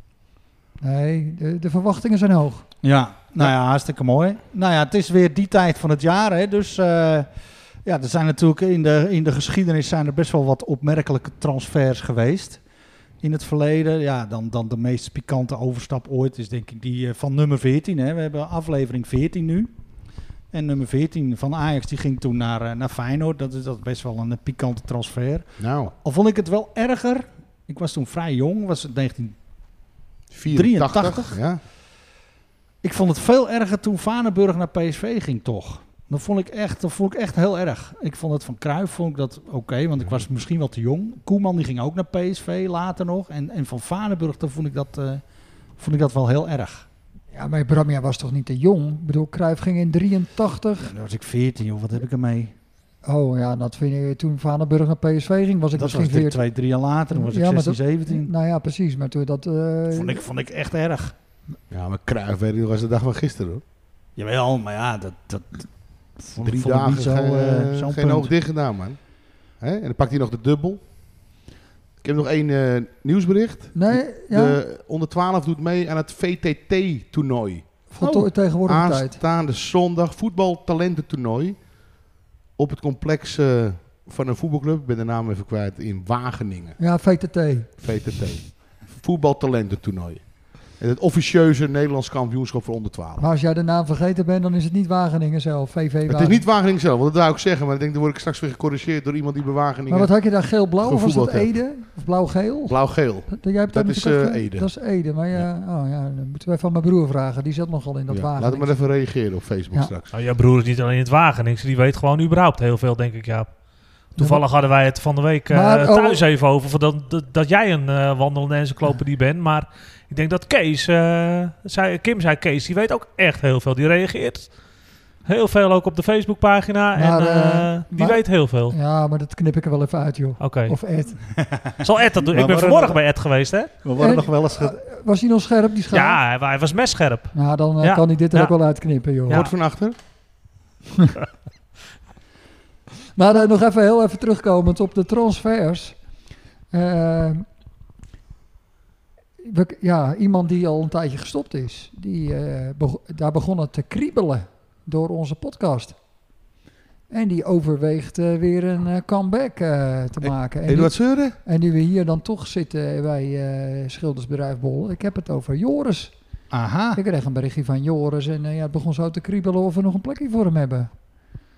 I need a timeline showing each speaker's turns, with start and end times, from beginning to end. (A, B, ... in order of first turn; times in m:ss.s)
0:00.8-0:02.7 A
0:02.8-0:12.6 B
0:13.2-0:29.4 B
0:25.6-0:25.9 C
0:30.3-0:31.6 C
0:30.5-0:31.4 B
0:32.8-0:45.2 B
0:45.8-0:46.8 B
0:47.3-0:50.9 A
0:50.8-0:52.5 B
0:53.0-0:56.4 A
0:55.8-0:58.3 B
0:57.1-1:00.2 A
0:59.9-1:01.1 B
1:01.7-1:03.6 C
1:04.2-1:08.3 B
1:06.4-1:10.8 C
1:12.0-1:21.6 C
1:13.7-1:14.6 A
1:17.9-1:19.2 A
1:22.6-1:26.8 C
1:26.8-1:27.8 A
1:27.8-1:33.2 C
1:33.2-1:36.4 A
1:36.1-1:40.1 C
1:39.9-1:48.7 A
1:40.8-1:41.5 C
1:42.7-1:44.7 C
1:48.1-1:50.1 C
1:50.1-1:53.5 D
1:54.1-2:04.5 D
1:54.2-1:54.4 A
1:55.5-1:56.2 A
2:05.2-2:08.8 D
2:07.0-2:11.2 A
2:10.4-2:10.8 D
2:11.4-2:13.0 B
2:11.8-2:13.8 D
2:13.8-2:14.7 B
2:14.0-2:16.2 A
2:15.9-2:18.5 D
2:17.3-2:19.4 A
2:19.3-2:20.0 C
2:23.1-2:26.0 A
2:26.7-2:27.4 A
2:29.4-2:36.0 A
2:37.1-2:46.1 A
2:40.2-2:41.4 C
2:46.5-2:47.0 B
2:47.0-2:50.9 A